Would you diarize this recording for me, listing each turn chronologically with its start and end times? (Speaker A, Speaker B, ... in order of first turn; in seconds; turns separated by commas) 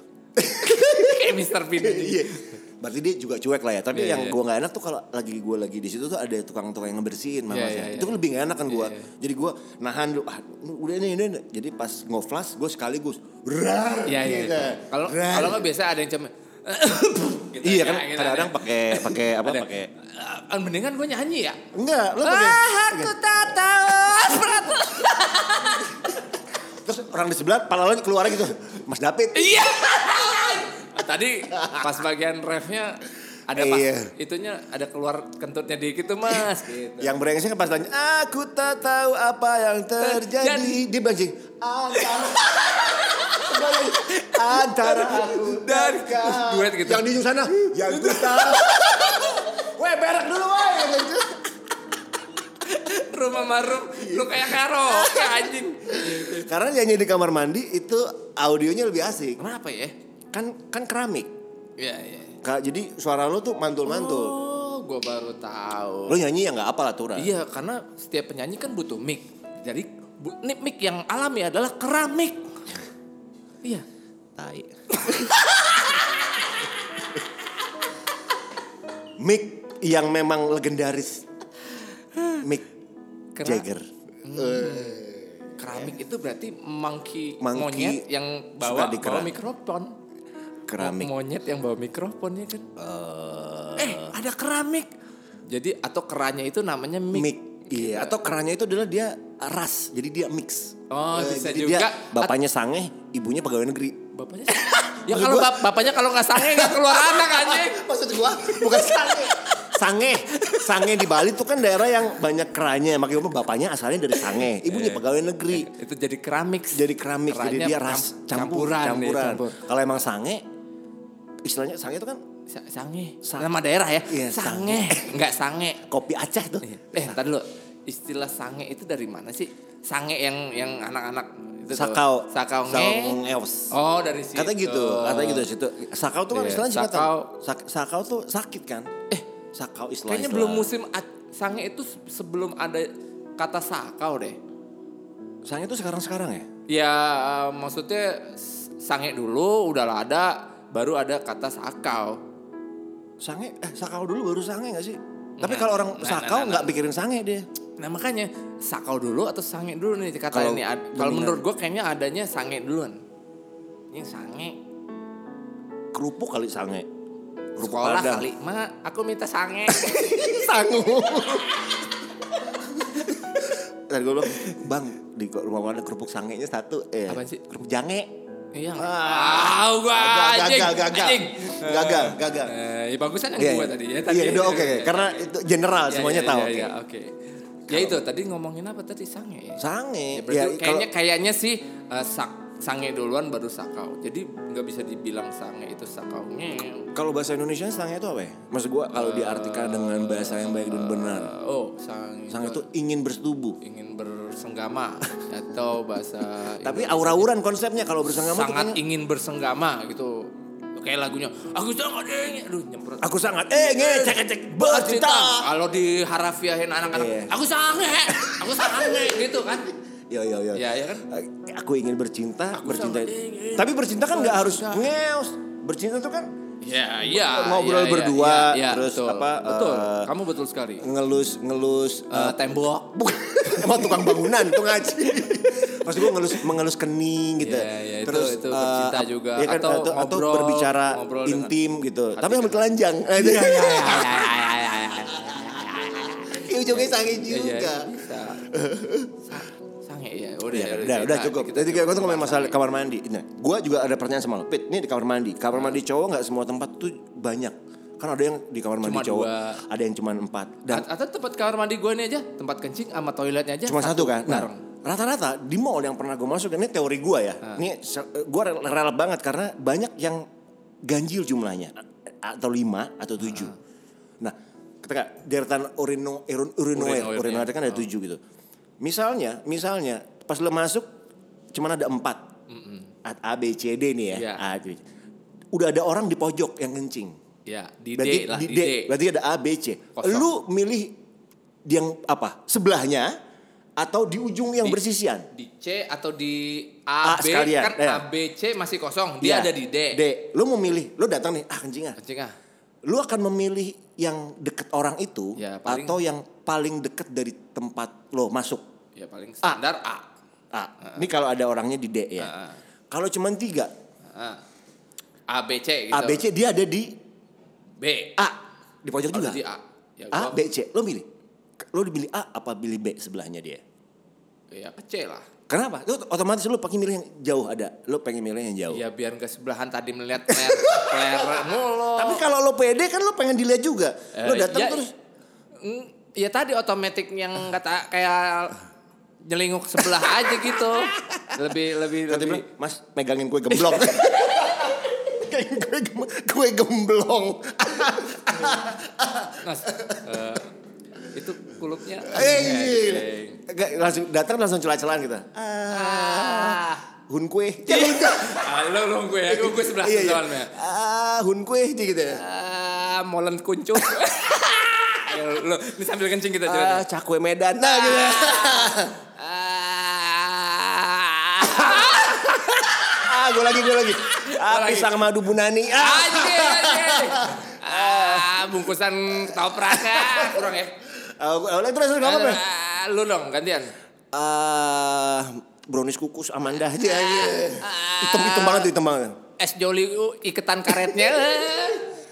Speaker A: 0.4-15.7, Speaker B: 0.8-2.6, Speaker B: 3.9-4.4, Speaker B: 7.5-9.1, Speaker B: 14.1-21.6, Speaker A: 17.6-19.9, Speaker A: 21.7-25.0, Speaker B: 22.2-26.1, Speaker A: 26.8-30.6, Speaker B: 29.3-37.1, Speaker A: 31.5-31.9, Speaker A: 33.5-34.1, Speaker A: 37.0-51.4, Speaker B: 40.0-40.8, Speaker B: 42.0-49.4, Speaker B: 52.6-56.5, Speaker A: 54.0-59.4, Speaker B: 59.4-60.0, Speaker A: 60.3-61.3, Speaker B: 61.8-62.4, Speaker A: 62.4-64.4, Speaker B: 63.8-66.2, Speaker A: 66.1-67.3, Speaker B: 67.2-72.5, Speaker A: 74.4-76.1, Speaker B: 75.0-75.3, Speaker A: 79.2-81.3, Speaker B: 82.1-82.4, Speaker A: 82.4-82.7, Speaker B: 83.3-83.7, Speaker A: 83.4-85.8, Speaker B: 84.2-85.0, Speaker B: 85.6-90.0, Speaker A: 87.4-88.1, Speaker A: 88.6-89.4, Speaker A: 90.7-91.1, Speaker B: 90.8-92.7, Speaker A: 92.8-94.2, Speaker B: 93.8-94.9, Speaker B: 95.5-98.1, Speaker A: 97.1-115.7, Speaker B: 100.9-102.3, Speaker B: 104.1-107.8, Speaker B: 108.5-109.8, Speaker B: 110.3-110.7, Speaker B: 114.3-119.6, Speaker A: 116.7-120.4, Speaker A: 121.4-122.2, Speaker B: 122.5-125.8, Speaker A: 123.2-123.5, Speaker A: 124.0-125.2, Speaker A: 125.8-127.2, Speaker B: 126.6-135.5, Speaker A: 131.7-133.7, Speaker A: 134.3-138.9, Speaker B: 136.3-137.3, Speaker A: 139.5-140.7, Speaker B: 140.1-144.4, Speaker A: 145.4-146.5, Speaker B: 146.7-152.2, Speaker A: 153.2-157.5, Speaker B: 155.4-156.8, Speaker B: 157.8-163.0, Speaker A: 160.3-161.4, Speaker B: 163.9-164.6, Speaker A: 165.9-166.9, Speaker A: 167.6-168.3, Speaker B: 167.6-170.5, Speaker A: 169.7-178.1, Speaker B: 173.0-173.5, Speaker B: 177.1-177.4, Speaker B: 178.5-185.3, Speaker A: 178.8-182.6, Speaker A: 183.4-186.7, Speaker B: 185.9-187.2, Speaker B: 187.7-189.6, Speaker A: 187.7-188.0, Speaker A: 189.6-190.9, Speaker B: 190.1-196.9, Speaker A: 196.9-201.3, Speaker B: 198.9-202.7, Speaker A: 202.3-203.6, Speaker B: 203.6-207.3, Speaker A: 206.6-208.8, Speaker B: 208.1-219.7, Speaker A: 213.0-215.5, Speaker A: 216.9-217.3, Speaker A: 218.1-219.3, Speaker A: 220.1-226.3, Speaker B: 220.5-221.1, Speaker B: 222.5-224.9, Speaker B: 226.6-230.9, Speaker A: 227.0-230.1, Speaker A: 230.8-244.5, Speaker B: 232.1-233.0, Speaker B: 233.6-234.4, Speaker B: 236.0-236.4, Speaker B: 237.4-241.5, Speaker B: 242.1-248.5, Speaker A: 245.1-249.3, Speaker B: 249.3-252.6, Speaker A: 250.5-260.9, Speaker B: 255.5-255.8, Speaker B: 258.8-259.6, Speaker B: 260.7-264.6, Speaker A: 263.6-270.2, Speaker A: 270.9-273.6, Speaker B: 273.2-273.6, Speaker A: 274.2-278.2, Speaker B: 276.7-277.9, Speaker A: 278.8-280.9, Speaker A: 281.5-282.2, Speaker B: 282.5-282.9, Speaker A: 283.1-284.8, Speaker B: 284.1-284.5, Speaker A: 285.5-287.1, Speaker B: 287.5-288.9, Speaker A: 288.0-291.0, Speaker B: 289.9-290.3, Speaker A: 291.7-293.1, Speaker A: 293.8-295.3, Speaker B: 295.3-300.0, Speaker A: 297.0-298.1, Speaker A: 299.2-302.0, Speaker B: 302.0-302.4, Speaker A: 302.9-308.6, Speaker B: 305.4-306.0, Speaker B: 309.0-310.1, Speaker A: 310.5-312.3, Speaker B: 312.2-312.6, Speaker A: 312.9-313.7, Speaker B: 314.1-314.4, Speaker B: 315.3-316.2, Speaker A: 315.9-316.9, Speaker B: 317.8-318.2, Speaker A: 318.2-319.4, Speaker B: 319.1-320.4, Speaker A: 320.1-321.1, Speaker A: 321.6-323.6, Speaker B: 324.5-325.3, Speaker A: 325.5-328.8, Speaker B: 328.7-332.3, Speaker A: 330.3-334.9, Speaker B: 334.1-334.9, Speaker B: 335.6-338.6, Speaker B: 339.3-342.5, Speaker A: 342.1-350.1, Speaker B: 343.5-344.7, Speaker B: 349.4-353.4, Speaker A: 352.1-358.6, Speaker B: 355.7-356.9, Speaker B: 357.7-360.5, Speaker A: 359.3-362.2, Speaker B: 362.1-366.9, Speaker A: 366.5-369.0, Speaker B: 367.6-375.1, Speaker A: 371.4-378.6, Speaker B: 375.7-380.8, Speaker A: 379.2-382.4, Speaker B: 382.0-383.7, Speaker A: 384.1-389.2, Speaker B: 386.8-388.7, Speaker B: 389.4-391.9